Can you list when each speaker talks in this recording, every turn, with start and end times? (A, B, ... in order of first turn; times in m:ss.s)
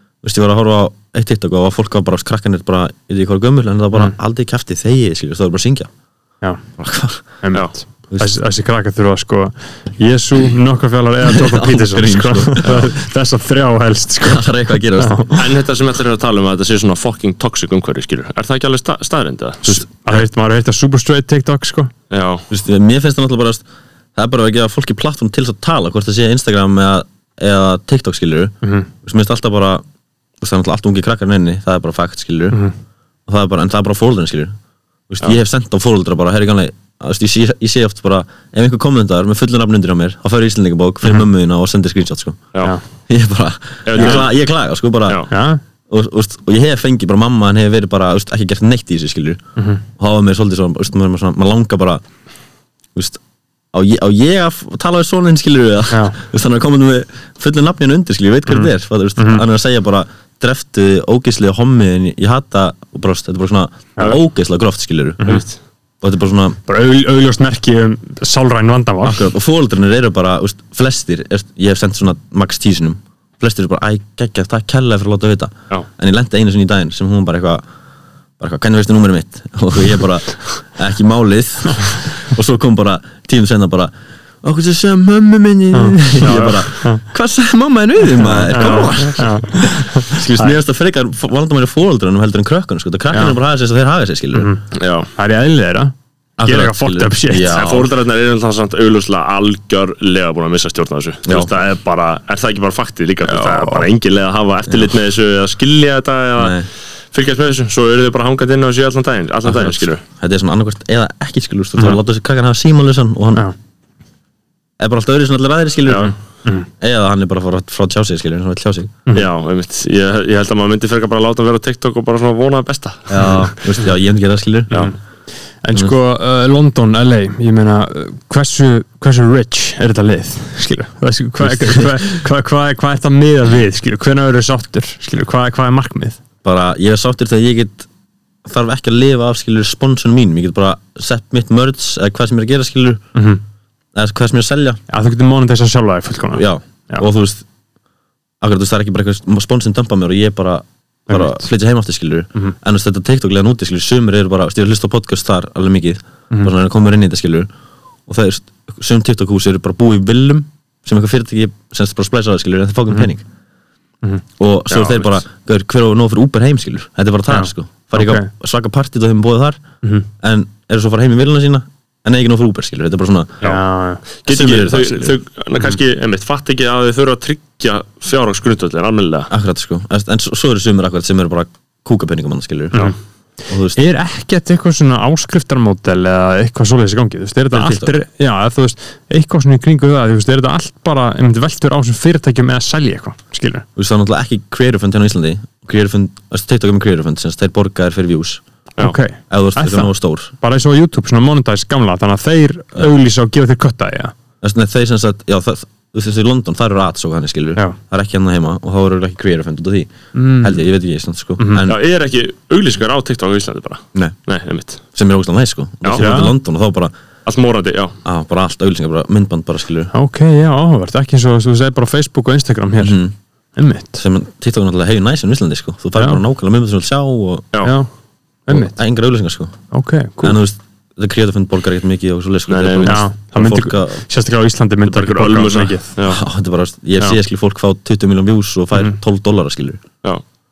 0:00.2-0:05.9 A
0:06.8-0:07.2 A
0:07.4-0:14.4 B
0:08.1-0:08.4 A
0:11.2-0:12.9 A
0:14.2-0:15.2 A
0:15.0-0:15.4 B
0:15.3-0:19.8 C
0:19.6-0:20.2 A
0:19.7-0:21.9 B
0:22.1-0:22.4 C
0:22.5-0:23.6 A
0:24.1-0:29.8 A
0:30.4-0:32.6 A
0:33.3-0:34.6 A
0:35.1-0:42.5 A
0:43.1-0:45.3 A
0:43.8-0:44.3 C
0:44.0-0:44.2 B
0:45.3-0:45.6 B
0:45.9-0:49.4 A
0:50.0-0:52.0 A
0:53.0-0:53.2 A
0:53.7-1:05.4 A
0:58.5-0:59.4 B
1:06.0-1:06.6 A
1:06.7-1:09.3 B
1:09.0-1:17.6 A
1:18.4-1:23.9 A
1:24.4-1:34.5 A
1:25.7-1:26.3 B
1:26.2-1:26.7 C
1:28.1-1:30.6 B
1:28.6-1:28.9 C
1:34.7-1:35.1 C
1:35.2-1:35.9 B
1:36.4-1:37.9 A
1:36.4-1:37.7 B
1:37.5-1:50.0 C
1:41.3-1:41.5 A
1:43.3-1:43.9 B
1:44.7-1:44.9 A
1:46.4-1:46.7 A
1:49.4-1:53.5 A
1:54.8-1:56.1 A
1:55.9-1:56.1 C
1:56.8-1:58.9 A
1:59.1-2:03.6 C
2:03.1-2:04.9 A
2:05.6-2:16.2 B
2:11.4-2:11.8 A
2:16.4-2:17.9 A
2:18.4-2:23.0 A
2:23.1-2:23.4 B
2:24.0-2:24.8 A
2:24.9-2:27.0 B
2:26.3-2:27.4 A
2:28.4-2:37.5 A
2:31.1-2:31.4 B
2:38.1-2:43.2 A
2:44.4-2:49.6 A
2:44.7-2:45.2 C
2:47.3-2:48.3 B
2:50.2-2:53.5 A
2:53.4-2:54.0 B
2:54.2-2:59.3 C
2:54.3-2:55.1 A
2:59.3-3:02.9 A
3:03.5-3:03.8 A
3:03.8-3:13.6 B
3:07.5-3:08.0 A
3:13.8-3:18.4 A
3:18.8-3:19.9 B
3:19.3-3:20.3 A
3:20.4-3:24.1 B
3:24.4-3:31.8 A
3:30.1-3:30.5 B
3:31.4-3:31.6 B
3:31.6-3:34.8 C
3:34.9-3:36.9 A
3:35.8-3:36.1 C
3:36.0-3:36.3 B
3:37.3-3:38.0 C
3:38.0-3:39.9 A
3:39.9-3:43.0 B
3:42.8-3:43.1 A
3:43.6-3:44.0 B
3:44.0-3:47.5 A
3:47.6-3:47.9 B
3:48.5-3:48.7 B
3:48.5-3:49.6 A
3:49.7-3:50.4 B
3:50.2-3:54.0 A
3:52.5-3:53.0 C
3:52.9-3:55.9 B
3:54.8-3:56.2 C
3:56.0-3:59.8 A